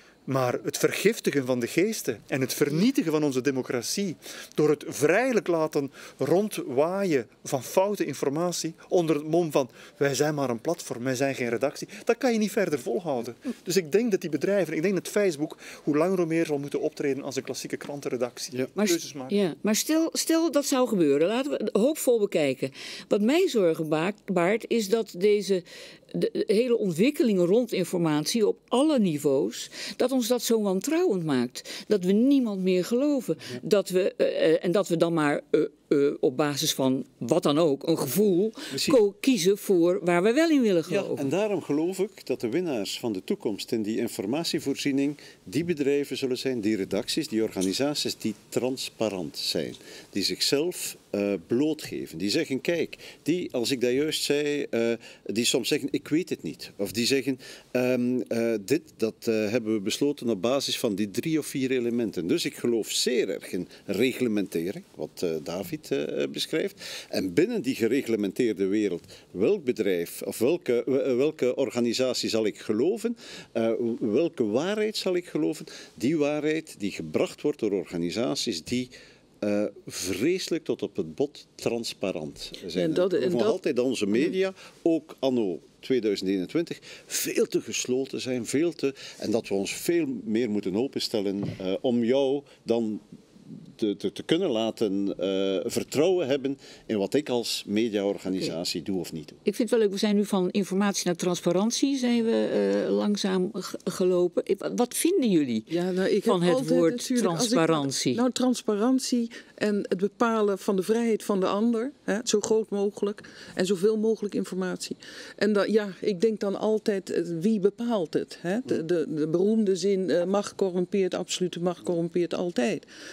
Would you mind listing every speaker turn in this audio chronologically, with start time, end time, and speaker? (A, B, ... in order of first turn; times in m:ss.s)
0:00.3-0:19.4 A
0:18.8-0:41.3 B
0:38.7-0:39.0 C
0:40.9-1:39.4 C
1:22.7-1:23.6 D
1:39.4-1:45.7 B
1:45.7-2:02.8 D
1:46.2-1:48.2 B